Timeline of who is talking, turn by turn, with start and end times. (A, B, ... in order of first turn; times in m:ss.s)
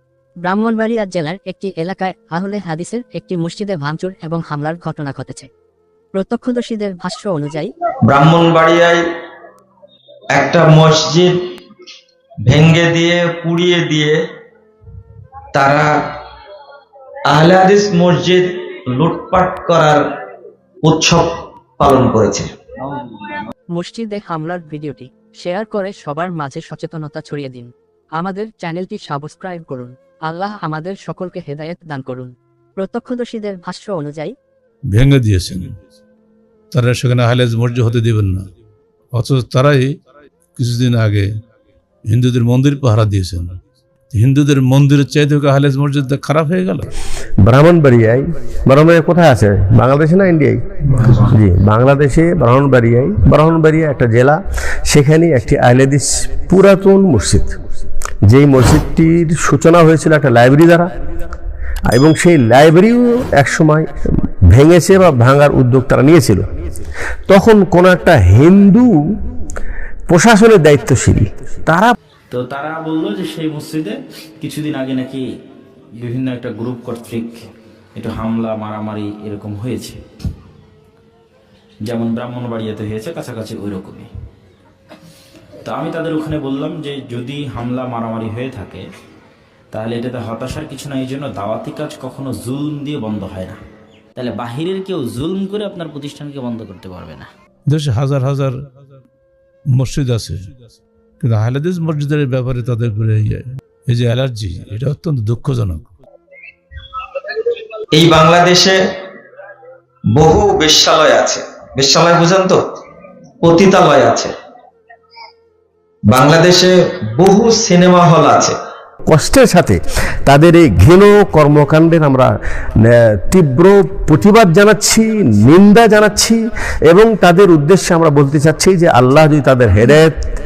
0:00.4-0:05.5 A
0:06.2-0:07.7 A
0:08.1-0:09.0 B
0:10.3-0:11.4 B
0:12.4-0:14.2 B
0:15.5-0:15.9 B
0:17.3-0:20.0 B
0:20.8-0:23.1 B
0:23.8-0:34.3 A
0:34.9-0:35.8 C
0:36.7-0:38.4 C
0:39.1-0:39.9 C
0:40.6-0:41.3 C
0:42.1-0:43.6 C
0:44.1-0:46.9 C
0:47.4-0:57.6 D
0:58.2-1:00.9 D
1:01.9-1:06.4 D
1:07.3-1:09.0 D
1:10.1-1:12.0 D
1:12.3-1:15.2 E
1:16.0-1:20.0 E
1:21.9-1:24.1 E
1:25.6-1:28.8 E
1:29.7-1:33.6 E
1:34.2-1:37.3 E
1:37.7-1:38.5 C
1:39.7-1:40.5 C
1:41.2-1:45.9 C
1:47.3-1:48.8 B
1:50.1-1:52.6 B
1:53.4-1:54.3 B
1:56.1-1:58.6 B
1:59.1-2:02.3 D
2:02.8-2:10.2 D